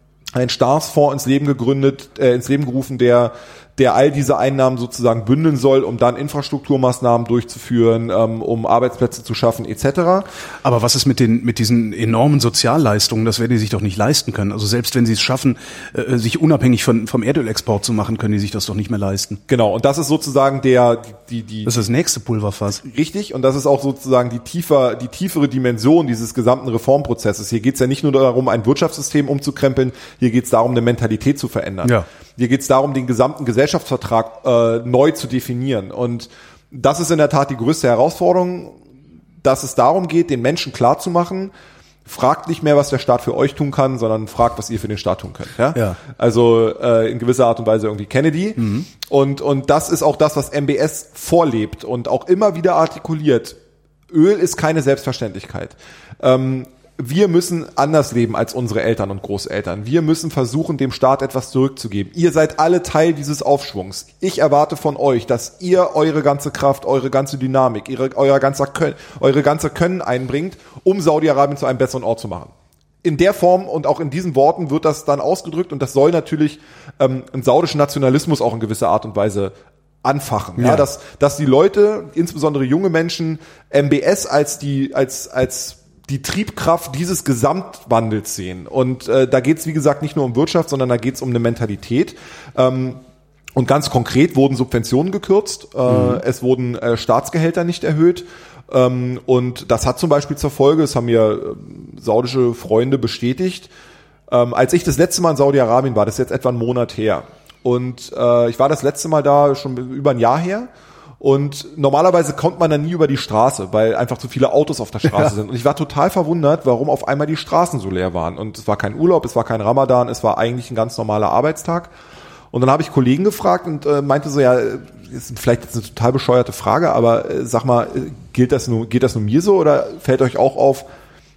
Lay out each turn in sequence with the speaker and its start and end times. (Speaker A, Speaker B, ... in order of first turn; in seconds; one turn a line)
Speaker A: 0.3-10.3
Speaker B: 10.6-19.4
Speaker A: 19.5-21.8
Speaker B: 21.6-22.8
Speaker A: 22.8-38.8
Speaker A: 39.4-41.5
Speaker A: 42.0-53.6
Speaker B: 48.6-48.9
Speaker A: 54.1-72.5
Speaker A: 73.0-93.0
Speaker B: 80.6-80.8
Speaker A: 93.5-103.7
Speaker B: 95.9-96.2
Speaker A: 104.3-121.9
Speaker A: 122.5-130.9